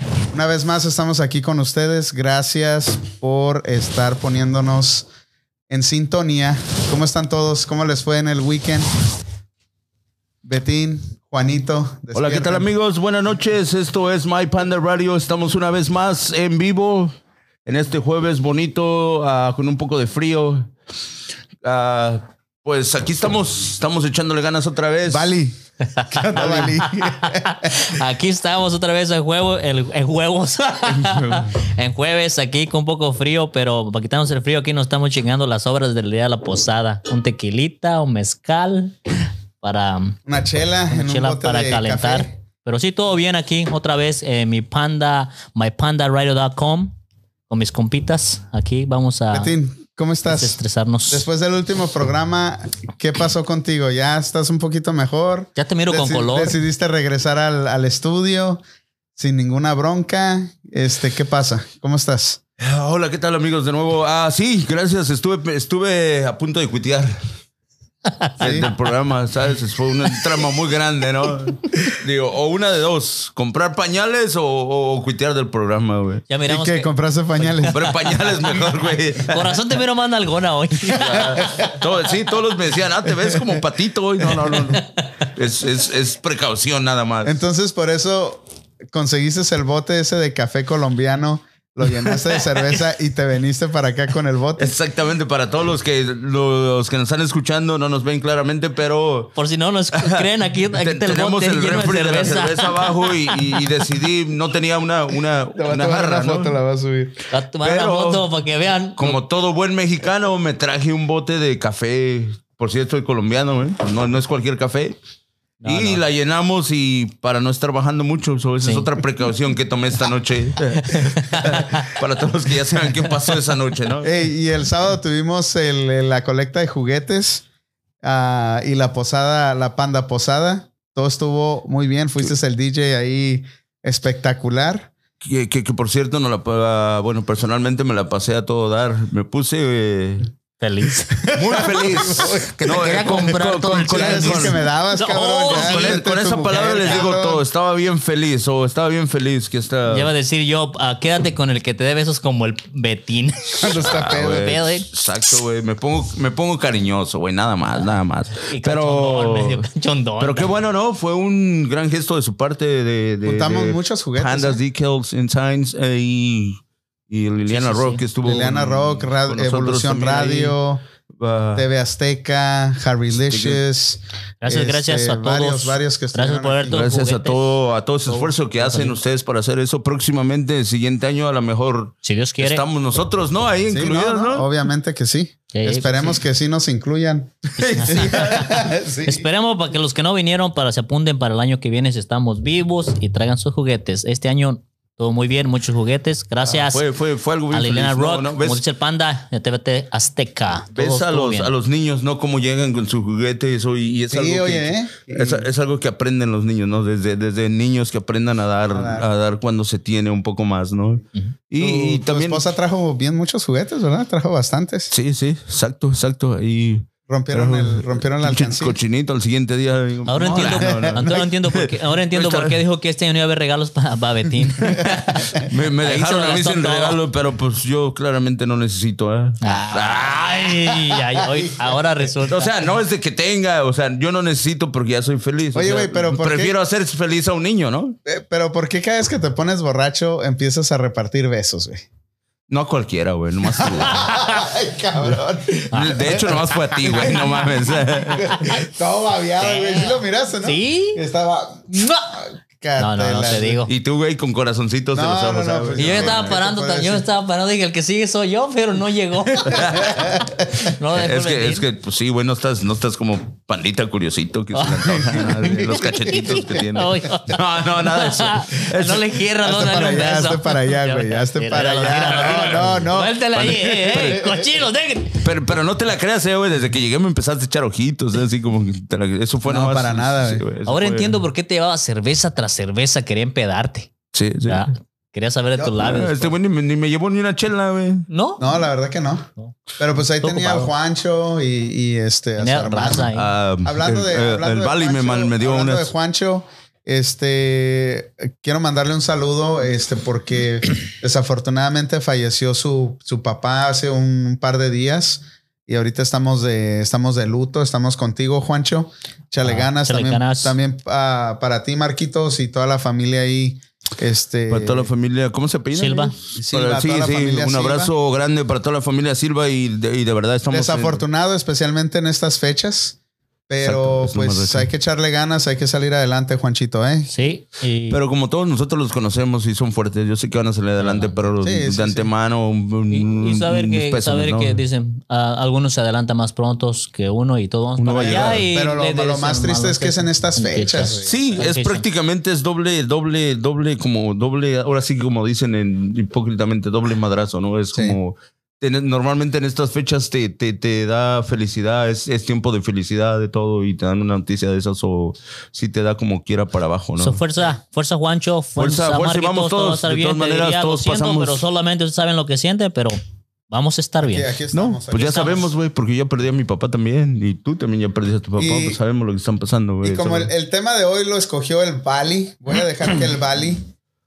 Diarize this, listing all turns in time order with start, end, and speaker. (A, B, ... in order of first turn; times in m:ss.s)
0:00.3-0:05.1 A
0:05.7-0:08.9 A
0:10.4-0:12.7 A
0:12.1-0:17.1 B
0:17.6-0:20.7 B
0:21.6-0:25.3 B
0:25.1-0:25.6 A
0:25.8-0:40.2 C
0:26.1-0:28.0 A
0:30.9-0:31.5 B
0:40.3-0:42.4 A
0:40.9-0:47.0 C
0:47.5-0:49.5 C
0:49.3-0:58.6 A
0:50.3-0:51.2 C
0:55.6-0:56.6 C
0:59.2-1:02.4 A
1:02.6-1:07.2 B
1:08.1-1:08.4 C
1:08.4-1:16.2 B
1:08.4-1:08.7 A
1:16.3-1:18.3 C
1:16.5-1:17.9 A
1:17.7-1:19.6 B
1:19.2-1:21.5 C
1:20.9-1:27.4 B
1:21.0-1:21.7 A
1:23.2-1:23.6 A
1:27.2-1:34.7 A
1:34.6-1:39.4 B
1:39.4-1:43.6 C
1:39.9-1:46.6 B
1:45.6-1:47.2 A
1:47.3-1:49.2 C
1:47.6-1:48.2 B
1:49.0-1:55.0 B
1:55.6-1:56.0 C
1:55.7-2:04.1 B
1:58.6-1:58.9 C
2:01.3-2:01.8 C
2:04.0-2:07.4 A
2:08.0-2:14.9 A
2:15.2-2:20.3 B
2:20.6-2:21.3 C
2:21.2-2:27.4 A
2:21.3-2:24.6 B
2:22.0-2:27.1 C
2:25.5-2:30.1 B
2:29.9-2:34.9 C
2:33.6-2:34.5 A
2:33.8-2:39.7 B
2:38.5-2:40.5 C
2:40.2-2:50.6 B
2:43.2-2:44.6 A
2:47.5-2:48.0 C
2:48.2-2:50.8 A
2:51.1-2:51.6 B
2:51.6-2:56.9 A
2:53.3-2:53.6 B
2:54.4-2:57.5 C
2:56.7-3:04.5 B
2:58.1-2:59.0 C
3:02.0-3:02.6 C
3:03.7-3:09.3 A
3:05.5-3:06.2 C
3:07.6-3:08.6 B
3:07.6-3:08.5 C
3:09.0-3:16.8 C
3:16.5-3:18.6 B
3:17.5-3:21.5 C
3:20.8-3:32.4 B
3:24.1-3:25.5 A
3:28.7-3:29.1 A
3:31.6-3:34.9 A
3:34.9-3:42.6 B
3:37.1-3:38.8 A
3:40.1-3:47.0 C
3:40.4-3:41.3 A
3:44.6-3:45.4 A
3:45.3-3:50.2 B
3:49.4-3:52.5 C
3:49.4-3:52.1 A
3:52.2-3:58.0 B
3:55.5-3:56.6 A
3:58.1-4:01.8 A
4:02.5-4:04.3 B
4:03.6-4:07.4 A
4:05.7-4:08.4 B
4:05.7-4:06.0 C
4:08.2-4:13.6 A
4:09.4-4:11.0 C
4:12.8-4:13.7 C
4:13.7-4:16.3 B
4:14.9-4:17.0 A
4:15.8-4:21.6 C
4:19.5-4:20.0 B
4:19.5-4:20.4 A
4:20.9-4:29.1 B
4:24.5-4:35.3 C
4:25.2-4:26.4 A
4:29.4-4:34.6 A
4:32.3-4:32.8 B
4:33.3-4:34.2 B
4:35.2-4:41.2 B
4:39.4-4:40.5 A
4:40.7-4:43.9 C
4:44.1-4:44.6 B
4:44.5-4:46.4 C
4:45.8-4:48.1 B
4:48.1-4:48.4 C
4:48.4-4:53.1 A
4:50.2-4:50.7 C
4:52.4-4:53.3 C
4:53.1-4:55.9 B
4:53.6-5:14.9 A
5:09.4-5:10.6 C
5:14.5-5:21.0 B
5:15.7-5:16.2 C
5:16.4-5:17.9 A
5:20.5-5:23.0 A
5:23.5-5:27.1 A
5:23.6-5:24.7 B
5:27.1-5:28.0 C
5:27.9-5:34.6 B
5:30.8-5:31.2 C
5:31.4-5:32.1 A
5:32.9-5:41.8 C
5:37.8-5:38.5 B
5:38.0-5:41.4 A
5:41.0-5:57.2 B
5:47.7-5:48.0 A
5:57.0-6:04.3 C
5:58.6-6:01.5 B
6:04.0-6:05.5 A
6:04.5-6:10.3 B
6:08.4-6:08.8 A
6:09.8-6:13.7 A